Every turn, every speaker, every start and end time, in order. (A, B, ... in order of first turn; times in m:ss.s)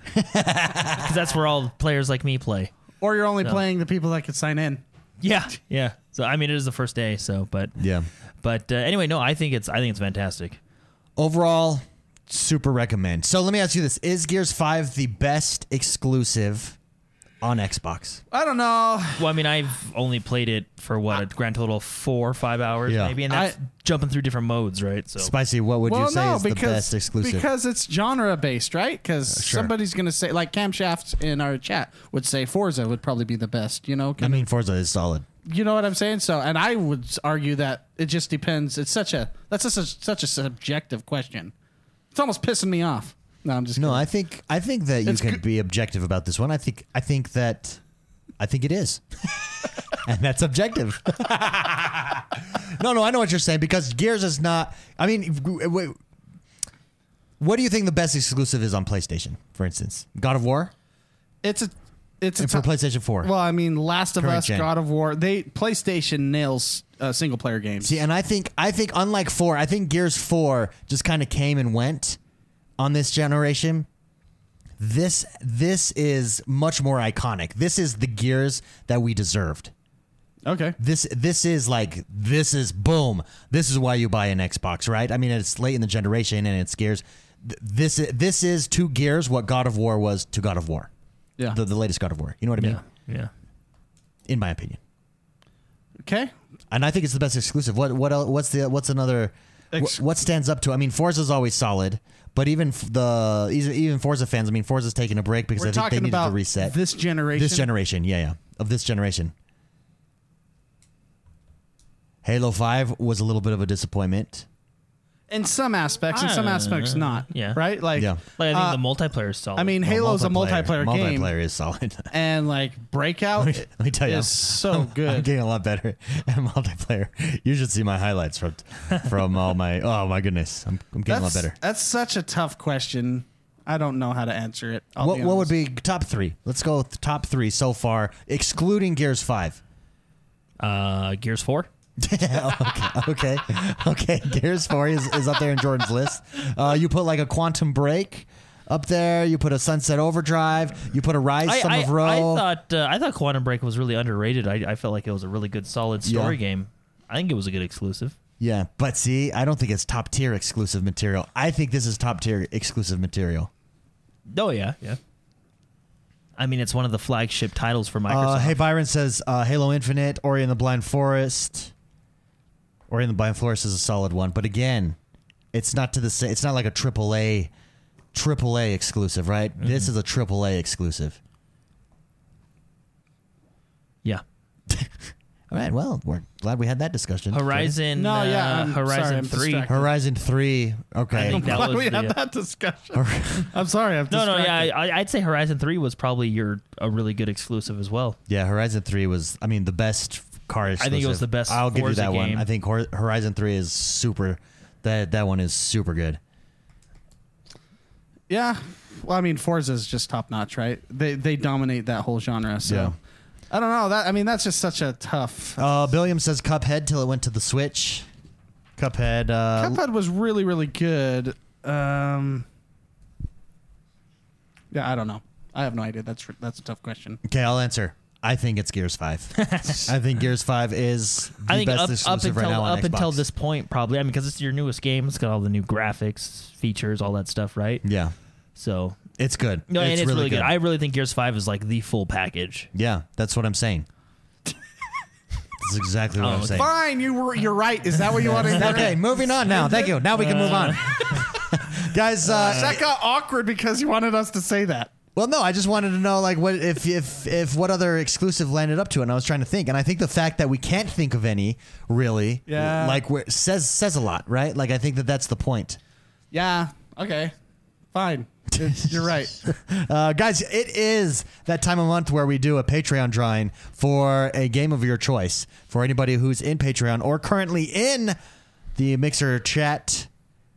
0:00.1-0:01.1 A
0:00.8-0:02.7 B
0:03.0-0:04.8 C
0:05.2-0:07.7 B
0:07.8-0:08.1 A
0:08.4-0:10.6 B
0:11.2-0:16.8 A
0:17.4-0:18.2 A
0:18.3-0:19.4 C
0:19.2-0:25.3 B
0:22.9-0:23.2 A
0:23.3-0:23.5 C
0:25.2-0:27.4 A
0:25.8-0:34.4 C
0:29.3-0:29.7 A
0:34.2-0:35.2 A
0:35.4-0:41.5 C
0:42.1-0:44.0 C
0:43.8-0:47.8 A
0:45.0-0:45.4 C
0:48.4-0:49.4 A
0:49.9-0:56.0 A
0:57.4-1:00.7 A
1:01.4-1:02.7 C
1:02.4-1:03.3 A
1:03.2-1:08.0 C
1:04.2-1:04.7 A
1:07.8-1:12.2 A
1:12.8-1:13.9 A
1:14.8-1:19.7 A
1:20.4-1:20.8 C
1:20.8-1:30.9 A
1:31.5-1:32.8 A
1:32.6-1:33.3 B
1:34.3-1:34.8 A
1:36.0-1:36.3 C
1:36.7-1:46.8 A
1:39.7-1:40.0 C
1:45.6-1:47.7 C
1:47.3-1:49.3 A
1:52.2-1:54.4 A
1:55.3-1:58.8 C
1:56.1-1:57.6 B
1:58.2-1:59.8 B
1:59.6-2:01.3 C
1:59.8-2:02.1 A
2:02.1-2:05.3 C
2:03.4-2:11.5 A
2:11.1-2:15.5 C
2:15.0-2:19.6 A
2:20.6-2:21.7 B
2:22.0-2:32.4 A
2:31.4-2:38.1 B
2:36.0-2:36.4 A
2:38.4-2:43.5 A
2:44.3-2:45.0 B
2:46.4-2:48.6 B
2:48.1-2:51.7 A
2:52.9-2:55.0 A
2:55.5-2:57.5 A
2:58.1-3:01.2 A
2:59.6-2:59.9 B
3:05.5-3:07.8 A
3:07.3-3:09.7 B
3:07.9-3:09.9 C
3:09.7-3:11.7 A
3:11.1-3:12.1 B
3:11.3-3:14.7 C
3:12.9-3:13.5 A
3:14.1-3:18.2 B
3:18.3-3:26.2 A
3:20.8-3:22.5 B
3:28.3-3:33.0 C
3:32.6-3:32.9 A
3:33.5-3:35.6 C
3:35.6-3:38.1 A
3:38.8-3:39.8 A
3:39.6-3:42.5 C
3:44.7-3:47.2 C
3:47.2-3:53.2 A
3:49.4-3:49.9 B
3:51.5-3:57.8 B
3:57.8-3:58.1 A
3:58.6-3:59.0 B
3:59.2-4:00.5 A
3:59.7-4:02.7 B
4:02.7-4:03.8 A
4:05.6-4:06.7 A
4:06.2-4:06.7 B
4:06.5-4:09.0 C
4:08.3-4:12.8 A
4:08.4-4:08.8 B
4:10.1-4:11.2 B
4:12.2-4:14.9 C
4:15.2-4:25.8 A
4:22.5-4:23.0 C
4:26.3-4:27.3 C
4:27.9-4:29.4 C
4:28.5-4:38.2 A
4:38.8-4:40.1 A